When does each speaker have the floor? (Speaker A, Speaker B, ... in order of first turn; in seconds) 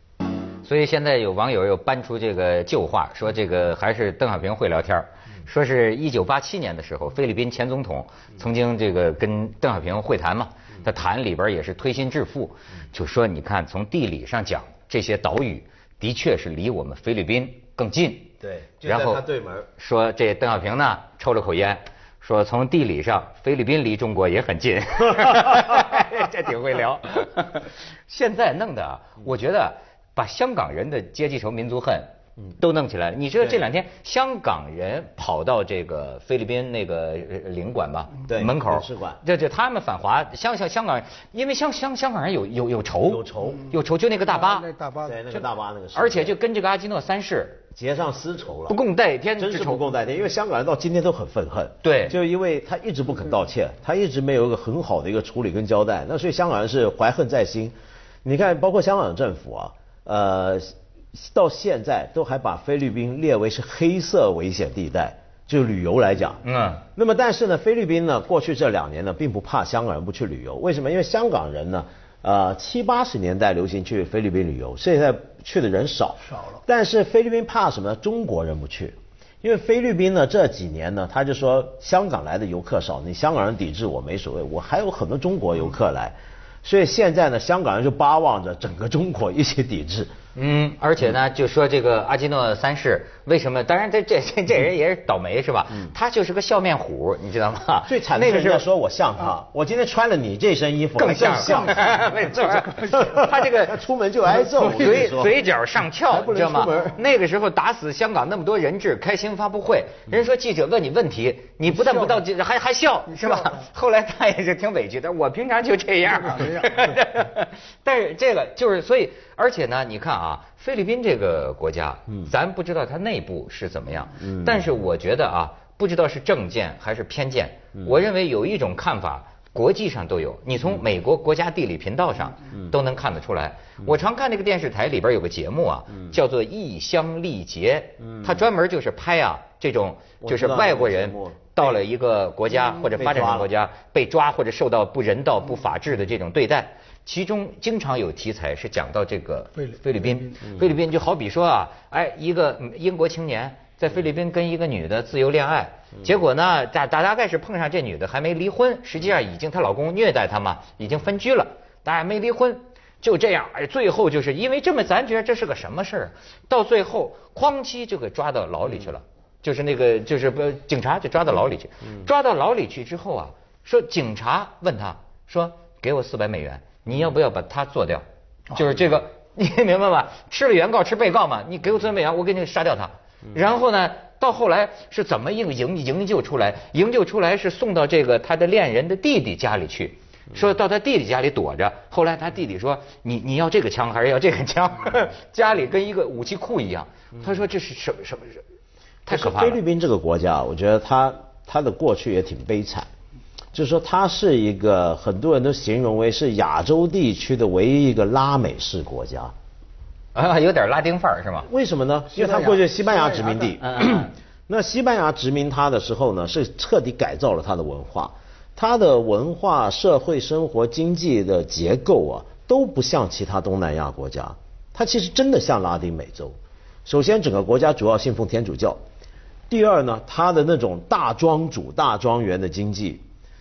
Speaker A: 0.6-18.3, 18.8-19.2, 19.8-44.7, 45.9-47.6, 48.7-49.9, 51.8-52.1, 66.4-66.8, 90.3-98.6, 101.0-103.8, 104.6-198.4, 199.0-199.6, 210.1-211.5, 213.6-214.1
Speaker B: 18.4-19.7, 38.3-39.2, 43.0-43.7, 45.0-46.4, 47.7-48.8, 49.4-66.4, 66.9-90.1, 97.9-102.1, 102.9-105.4, 106.1-107.0, 124.2-124.6, 138.0-138.4, 140.2-141.8, 142.8-143.5, 199.1-202.9, 203.5-209.3, 211.4-228.8, 229.5-233.0
Speaker C: 44.3-45.3, 76.3-76.6, 102.4-103.1, 104.5-105.1, 111.7-112.2, 113.1-113.7, 116.1-117.0, 149.6-150.3, 212.1-213.6